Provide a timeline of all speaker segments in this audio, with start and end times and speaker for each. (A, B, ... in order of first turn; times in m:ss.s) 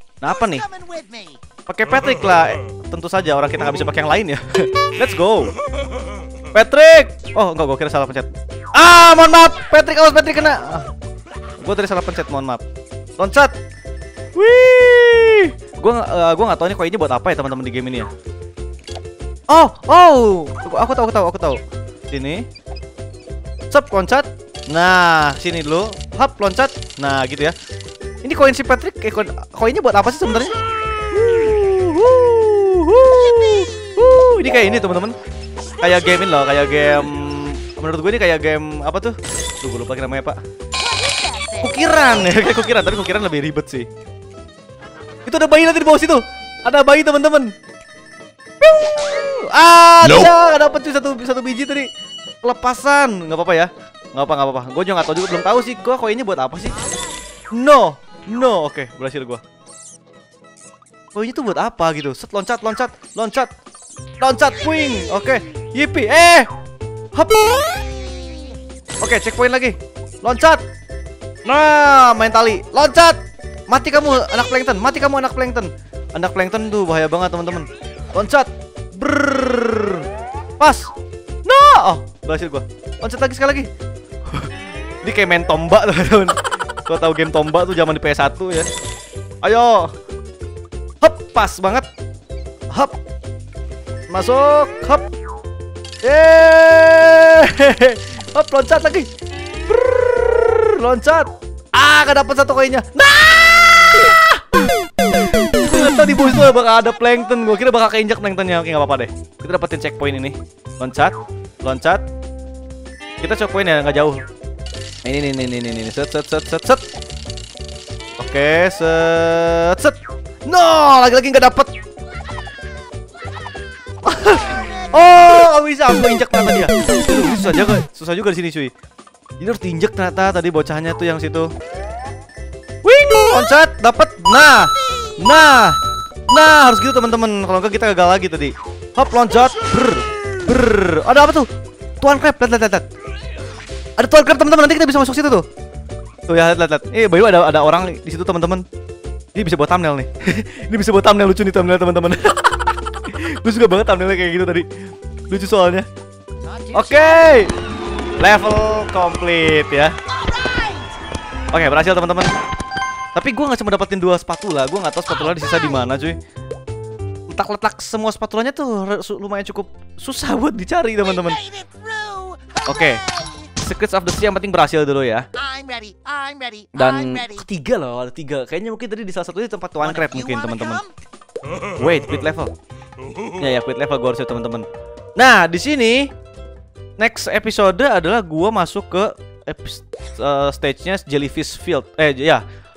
0:00.2-0:00.6 A
0:00.2-0:01.4 B
0:01.7-0:05.5 A
0:06.5-0:10.9 A
0:11.6-0:12.6 A
0:13.2-0:13.5 A
0:14.3-0:18.1 A
0:19.5-0:22.4 A
0:23.7-0:27.5 A
0:28.2-0:30.6 A
0:31.1-0:35.2 A
0:33.1-0:34.3 B
0:35.8-0:40.4 A
0:40.8-0:41.8 B
0:41.6-0:43.9 A
0:45.2-0:47.5 A
0:48.6-0:51.9 A
0:52.4-0:56.8 A
0:57.5-0:59.4 A
1:01.1-1:03.5 A
1:04.2-1:06.5 A
1:07.1-1:07.6 A
1:07.8-1:08.5 B
1:09.0-1:10.6 A
1:11.4-1:20.9 A
1:21.4-1:23.7 A
1:24.3-1:28.7 A
1:29.4-1:29.9 A
1:31.0-1:31.9 A
1:32.7-1:33.0 A
1:34.1-1:35.1 A
1:36.0-1:39.1 A
1:39.6-1:44.7 A
1:45.3-1:52.0 A
1:53.2-1:54.2 A
1:55.0-1:56.8 A
1:58.2-2:01.7 A
2:04.0-2:08.7 A
2:09.4-2:11.5 A
2:12.8-2:21.5 A
2:14.9-2:15.2 B
2:22.0-2:22.8 A
2:24.0-2:25.4 A
2:26.3-2:28.6 A
2:29.3-2:34.6 A
2:35.3-2:35.8 A
2:36.4-2:37.5 B
2:36.7-2:37.5 A
2:38.2-2:39.9 A
2:40.1-2:40.9 B
2:41.5-2:42.3 A
2:43.1-2:46.2 A
2:45.2-2:45.8 B
2:47.3-2:51.4 A
2:51.0-2:53.5 B
2:52.6-2:53.0 A
2:53.6-2:55.3 A
2:55.3-2:57.5 B
2:56.7-3:00.8 A
2:59.8-3:00.9 B
3:01.7-3:02.5 A
3:03.4-3:06.1 A
3:07.0-3:12.4 A